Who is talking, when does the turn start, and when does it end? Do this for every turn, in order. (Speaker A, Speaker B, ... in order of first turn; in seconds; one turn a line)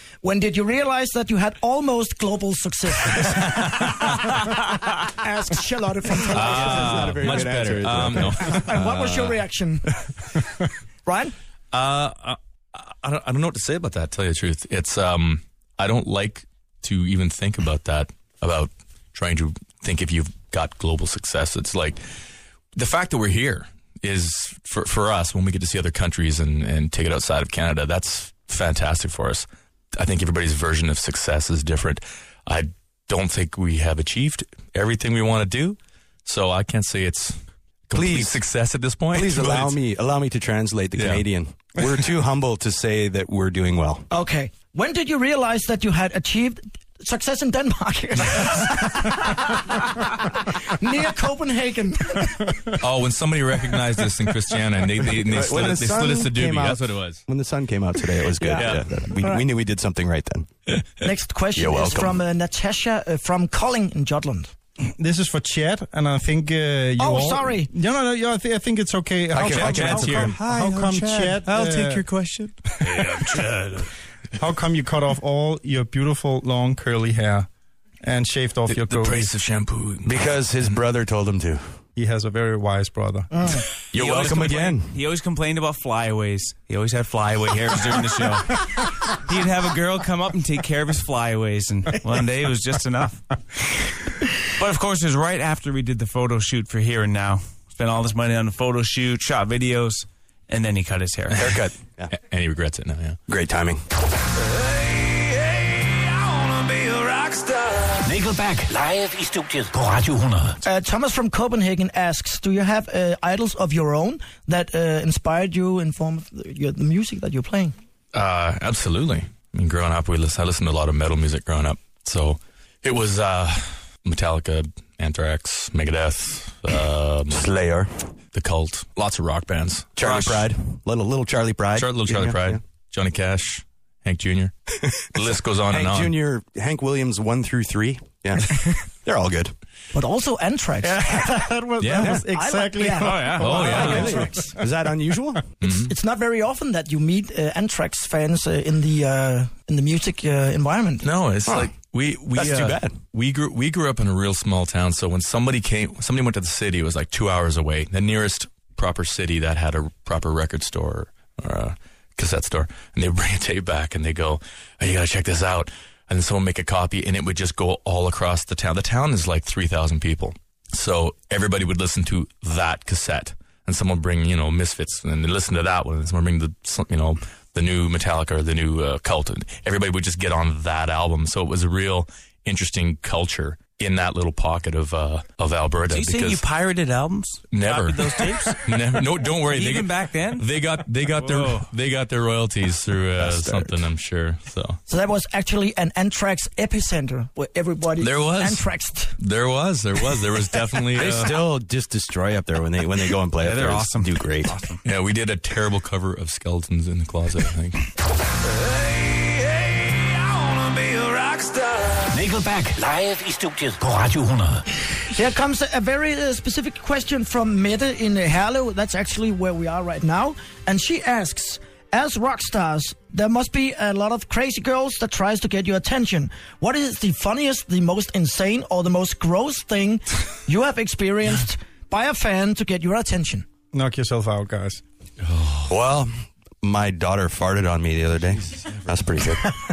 Speaker A: 0.2-7.5
Speaker B: 6.3-9.3
Speaker C: 6.3-8.8
Speaker A: 8.1-9.9
Speaker A: 11.0-11.3
Speaker B: 11.7-22.0
Speaker B: 22.8-39.8
Speaker C: 37.9-38.4
Speaker C: 39.1-44.1
Speaker B: 40.9-41.2
Speaker A: 44.1-52.6
Speaker B: 52.8-57.2
Speaker C: 55.2-60.5
Speaker A: 58.4-59.4
Speaker B: 58.5-58.9
Speaker A: 61.0-64.5
Speaker C: 61.5-62.2
Speaker D: 65.0-72.0
Speaker A: 67.0-67.7
Speaker B: 69.3-70.3
Speaker C: 69.3-73.2
Speaker B: 72.8-73.9
Speaker D: 74.4-77.5
Speaker D: 78.0-79.3
Speaker B: 78.7-80.8
Speaker C: 80.0-81.6
Speaker D: 82.0-83.7
Speaker C: 83.9-84.9
Speaker E: 84.0-101.6
Speaker B: 84.0-84.5
Speaker C: 101.3-102.1
Speaker B: 102.1-103.2
Speaker C: 103.3-103.8
Speaker E: 106.4-107.3
Speaker F: 108.0-110.5
Speaker E: 108.3-109.0
Speaker E: 109.8-110.3
Speaker A: 110.6-117.7
Speaker B: 118.1-127.5
Speaker C: 127.3-128.0
Speaker B: 128.3-130.5
Speaker C: 130.0-132.6
Speaker B: 131.7-136.2
Speaker C: 135.7-139.5
Speaker A: 139.9-141.1
Speaker D: 140.8-144.4
Speaker B: 141.8-142.2
Speaker A: 142.2-144.5
Speaker E: 143.0-143.5
Speaker B: 143.4-144.1
Speaker C: 143.6-145.5
Speaker B: 145.6-145.9
Speaker A: 145.6-151.1
Speaker B: 151.0-186.4
Speaker C: 152.3-152.9
Speaker E: 185.9-188.6
Speaker B: 187.5-194.8
Speaker E: 189.4-190.5
Speaker E: 191.2-191.7
Speaker C: 193.2-193.8
Speaker A: 194.9-199.2
Speaker B: 198.0-198.7
Speaker B: 199.2-201.5
Speaker C: 200.9-204.5
Speaker E: 203.4-204.8
Speaker B: 204.8-207.9
Speaker E: 210.8-211.6
Speaker F: 212.1-214.6
Speaker A: 215.1-233.4
Speaker D: 233.7-234.8
Speaker B: 235.2-235.8
Speaker C: 235.7-239.5
Speaker B: 238.3-239.0